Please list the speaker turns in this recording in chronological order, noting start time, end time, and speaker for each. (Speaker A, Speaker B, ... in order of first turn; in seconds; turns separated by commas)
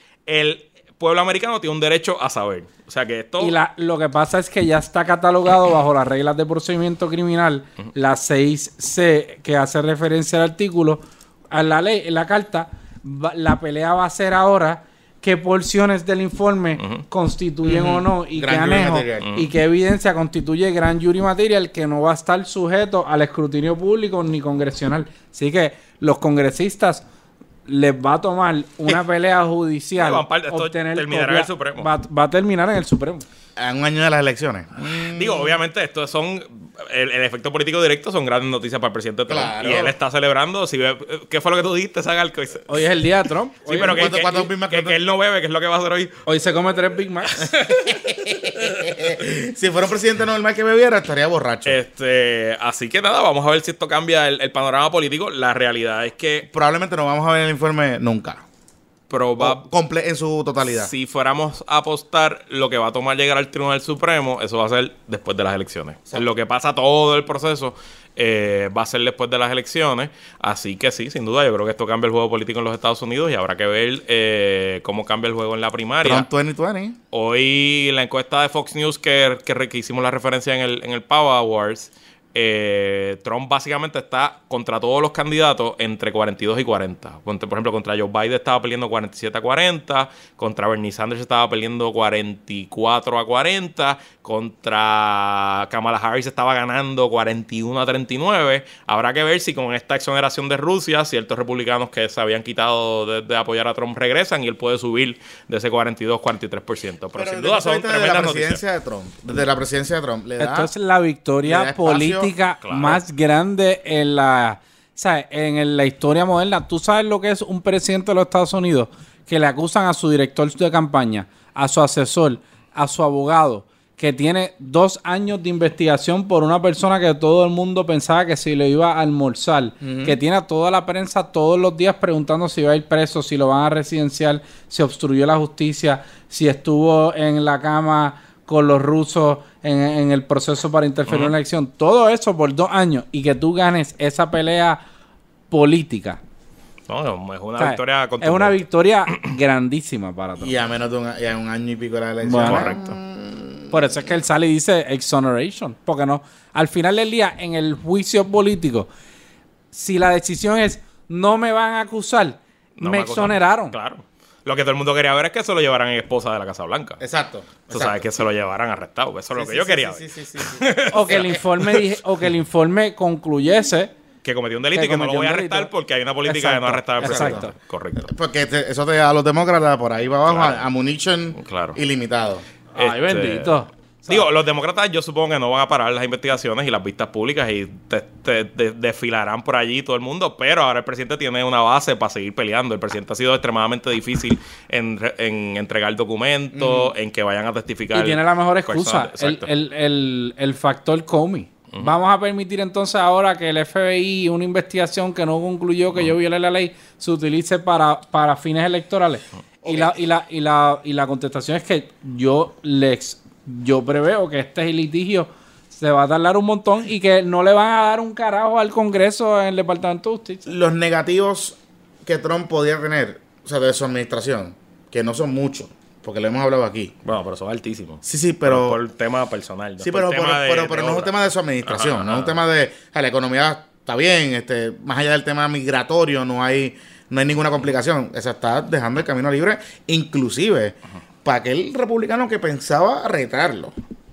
Speaker A: 0.3-3.5, Speaker B: 3.4-27.0, Speaker C: 17.6-19.3, Speaker A: 19.2-19.5, Speaker B: 27.7-33.2, Speaker A: 30.0-31.9, Speaker C: 33.6-35.6, Speaker A: 35.0-42.8, Speaker C: 39.3-40.0, Speaker B: 42.7-44.1, Speaker A: 43.6-46.2, Speaker C: 43.7-45.0, Speaker B: 46.3-47.5, Speaker A: 47.3-48.0, Speaker C: 47.7-51.8, Speaker A: 51.7-56.5, Speaker C: 56.5-58.4, Speaker A: 59.1-59.6, Speaker C: 59.4-60.9, Speaker A: 60.6-76.3, Speaker C: 76.0-77.0, Speaker A: 77.1-108.6, Speaker C: 107.2-110.7, Speaker B: 110.4-144.8, Speaker C: 111.4-112.3, Speaker A: 112.6-113.0, Speaker C: 129.8-130.2, Speaker A: 141.1-141.3, Speaker B: 145.5-146.2, Speaker A: 146.9-148.7, Speaker B: 147.6-150.6, Speaker C: 150.4-154.0, Speaker B: 152.2-152.7, Speaker A: 152.4-153.0, Speaker B: 153.7-158.9, Speaker B: 159.7-163.8, Speaker A: 162.8-167.0, Speaker C: 167.0-168.0, Speaker A: 167.7-171.9, Speaker C: 169.3-171.4, Speaker B: 170.9-173.9, Speaker A: 174.2-178.1, Speaker B: 174.7-175.7, Speaker B: 176.2-177.5, Speaker C: 177.0-182.4, Speaker A: 180.3-180.7, Speaker A: 181.4-181.8, Speaker B: 182.8-184.3, Speaker A: 182.8-199.5, Speaker C: 196.5-196.9, Speaker B: 197.9-220.5, Speaker C: 209.6-210.0, Speaker C: 220.5-226.9, Speaker A: 227.1-232.4, Speaker C: 228.0-228.8, Speaker C: 229.8-243.7